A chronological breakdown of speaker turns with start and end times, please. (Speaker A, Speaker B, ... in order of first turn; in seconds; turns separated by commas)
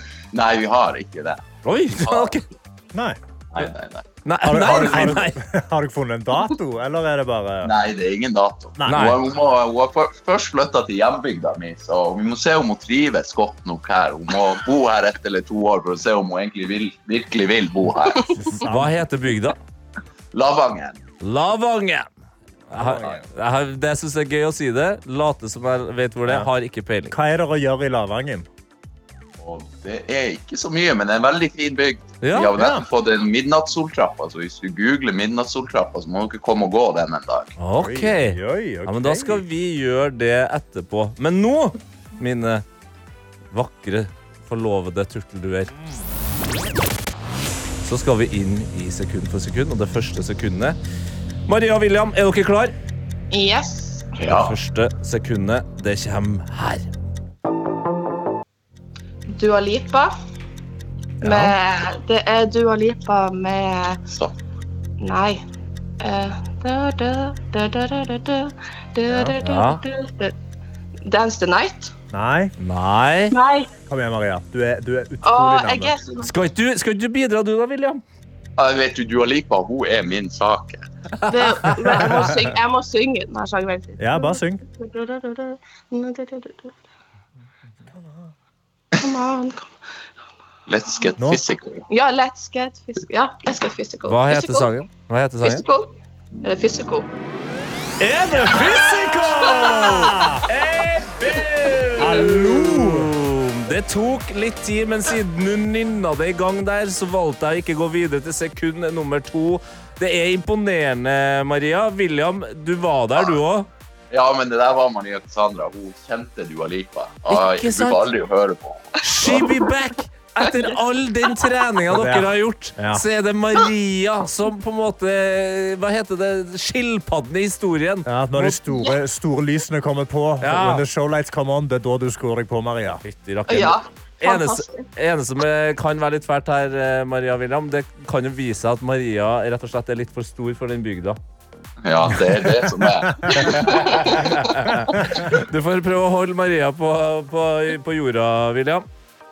Speaker A: 0.3-2.4, Speaker B: 1.6-2.4, Speaker C: 2.9-3.2, Speaker A: 3.5-5.2, Speaker B: 4.2-5.4, Speaker C: 4.4-7.7, Speaker A: 7.6-18.4, Speaker C: 8.8-9.1, Speaker B: 8.9-9.2, Speaker C: 18.3-19.0, Speaker B: 18.6-19.6, Speaker A: 20.3-21.0, Speaker B: 21.2-22.1, Speaker B: 22.7-27.2, Speaker C: 22.7-23.2, Speaker C: 27.1-28.5, Speaker A: 29.4-37.5, Speaker B: 32.2-32.5, Speaker C: 32.5-32.9, Speaker B: 37.6-42.6, Speaker C: 37.8-39.4, Speaker B: 43.5-45.7, Speaker B: 47.8-50.8, Speaker B: 51.5-52.7, Speaker D: 53.3-54.1, Speaker A: 54.2-54.5, Speaker B: 54.3-56.9, Speaker D: 59.3-60.1, Speaker D: 61.2-64.0, Speaker C: 61.2-61.5, Speaker D: 65.0-65.4, Speaker D: 66.0-70.3, Speaker C: 69.1-69.3, Speaker B: 69.4-69.8, Speaker D: 71.0-71.9, Speaker C: 72.1-72.5, Speaker B: 72.6-73.4, Speaker D: 73.3-73.7, Speaker C: 73.9-75.9, Speaker D: 75.2-76.3, Speaker B: 76.2-78.0, Speaker A: 78.6-80.8, Speaker B: 81.2-82.3, Speaker D: 81.3-86.8, Speaker C: 84.0-84.6, Speaker D: 89.0-89.8, Speaker A: 90.7-91.8, Speaker D: 91.9-94.7, Speaker B: 94.1-95.7, Speaker D: 95.4-97.1, Speaker B: 98.0-113.7, Speaker D: 99.6-99.9, Speaker C: 99.9-100.4, Speaker C: 102.0-103.1, Speaker A: 114.1-119.5, Speaker B: 117.3-118.0, Speaker B: 119.0-128.6, Speaker C: 121.9-123.0, Speaker C: 128.1-133.0, Speaker B: 130.4-130.8, Speaker B: 133.0-141.2, Speaker D: 133.5-134.9, Speaker A: 141.8-144.1, Speaker D: 143.5-144.2, Speaker B: 144.0-148.9